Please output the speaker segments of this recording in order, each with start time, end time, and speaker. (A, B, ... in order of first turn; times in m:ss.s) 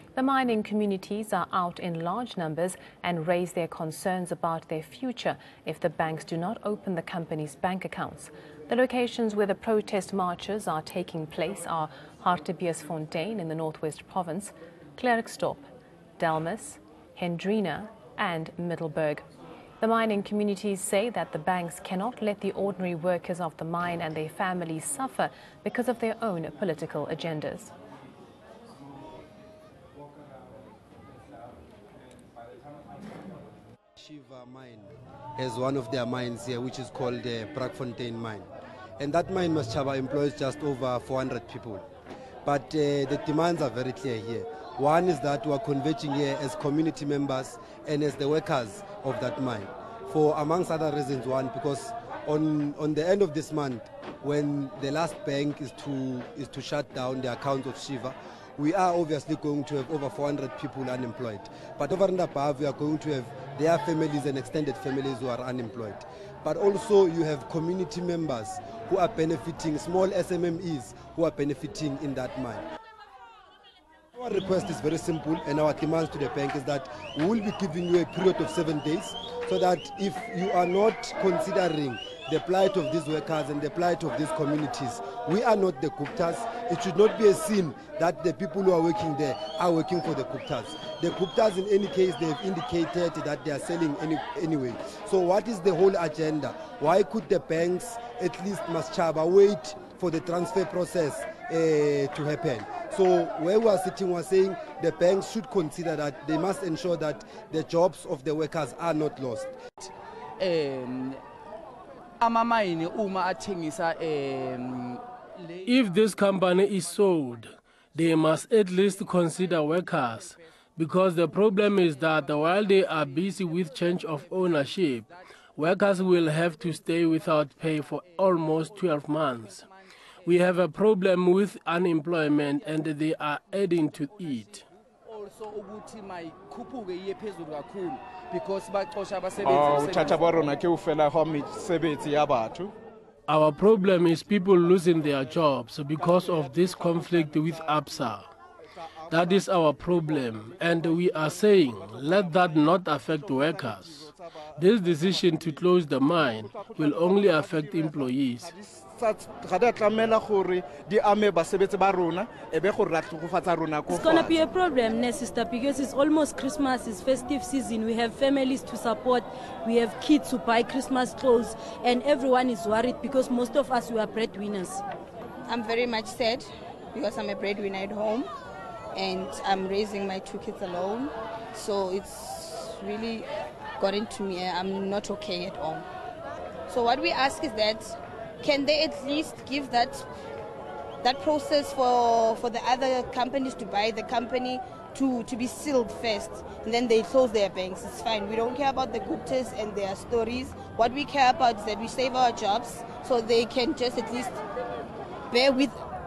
0:00.2-0:15.6 A
0:16.2-0:19.2 A
0:19.8-0:27.7 A
0:34.0-0:38.5 B
0:39.0-0:41.8 B
0:42.4-1:12.6 B
1:14.2-1:49.6 B
1:50.4-1:51.2 C
1:52.2-1:55.0 C
1:55.5-1:55.9 C
1:55.6-2:09.7 D
2:01.9-2:05.2 C
2:06.0-2:06.8 C
2:08.0-2:09.8 C
2:10.2-2:14.6 D
2:14.3-2:14.6 C
2:15.1-2:20.2 C
2:19.4-2:22.7 E
2:23.3-2:28.3 D
2:23.8-2:28.1 E
2:28.9-2:44.5 E
2:29.1-2:38.5 D
2:43.9-2:54.8 F
2:55.5-2:58.3 G
2:58.9-3:05.9 G
3:06.7-3:10.1 G
3:11.0-3:24.4 G
3:25.3-3:25.8 G